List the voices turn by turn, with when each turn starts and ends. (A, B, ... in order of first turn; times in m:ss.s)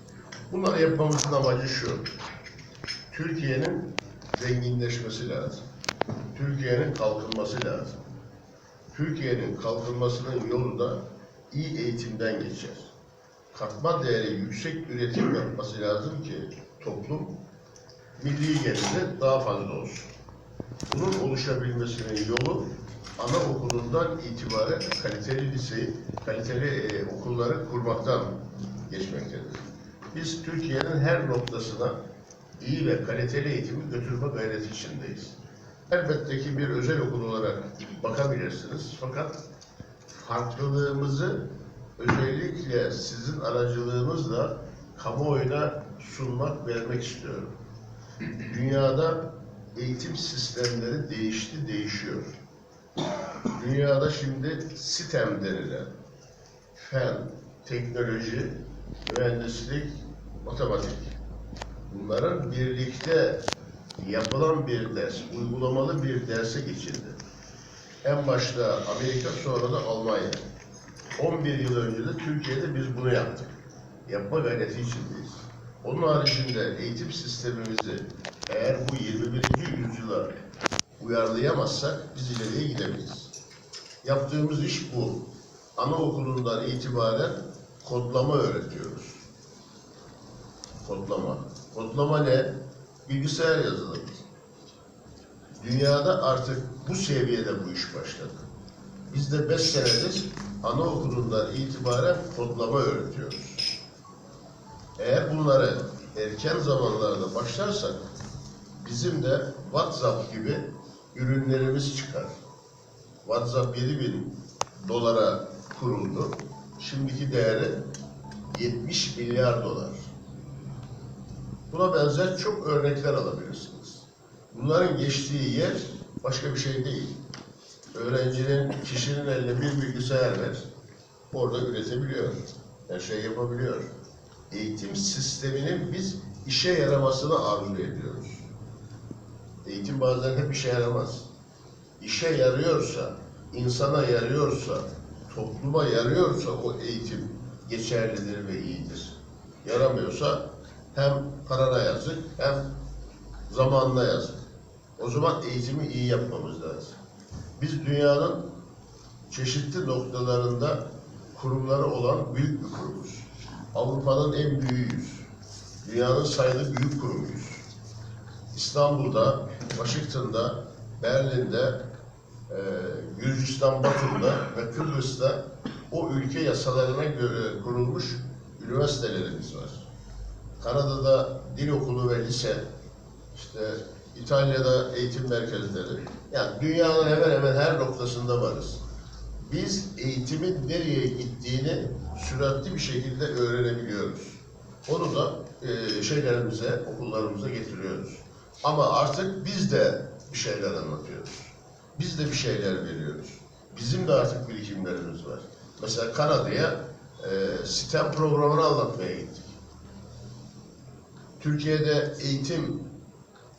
0:00.5-0:02.1 A
0:03.1-0:05.6 A
0:06.3-0:08.0 A
0:08.9-0:12.9 A
0:13.5-0:17.3 A
0:18.2-0:20.1 A
0:20.9-0:32.0 A
0:32.6-0:35.4 A
0:35.9-0:39.4 A
0:40.1-0:41.4 A
0:42.0-0:47.5 A
0:48.4-0:52.3 A
0:53.5-0:55.9 A
0:56.7-1:01.2 A
1:01.9-1:03.4 A
1:04.0-1:07.2 A
1:08.0-1:10.4 A
1:11.2-1:13.5 A
1:14.0-1:20.3 A
1:21.0-1:23.3 A
1:24.0-1:25.2 A
1:25.8-1:29.2 A
1:30.8-1:34.2 A
1:35.5-1:38.4 A
1:39.1-1:43.7 A
1:45.0-1:48.0 A
1:48.8-1:52.4 A
1:53.2-1:57.8 A
1:58.5-2:00.1 A
2:01.7-2:07.2 A
2:07.9-2:10.7 A
2:11.3-2:13.9 A
2:14.5-2:18.5 A
2:19.6-2:21.3 A
2:22.0-2:32.7 A
2:33.5-2:34.4 A
2:35.0-2:37.0 A
2:37.6-2:38.4 A
2:39.3-2:45.3 A
2:45.8-2:47.6 A
2:48.5-2:51.8 A
2:52.5-2:59.8 A
3:00.6-3:02.6 A
3:03.3-3:08.8 A
3:09.4-3:29.5 A
3:31.4-3:32.8 A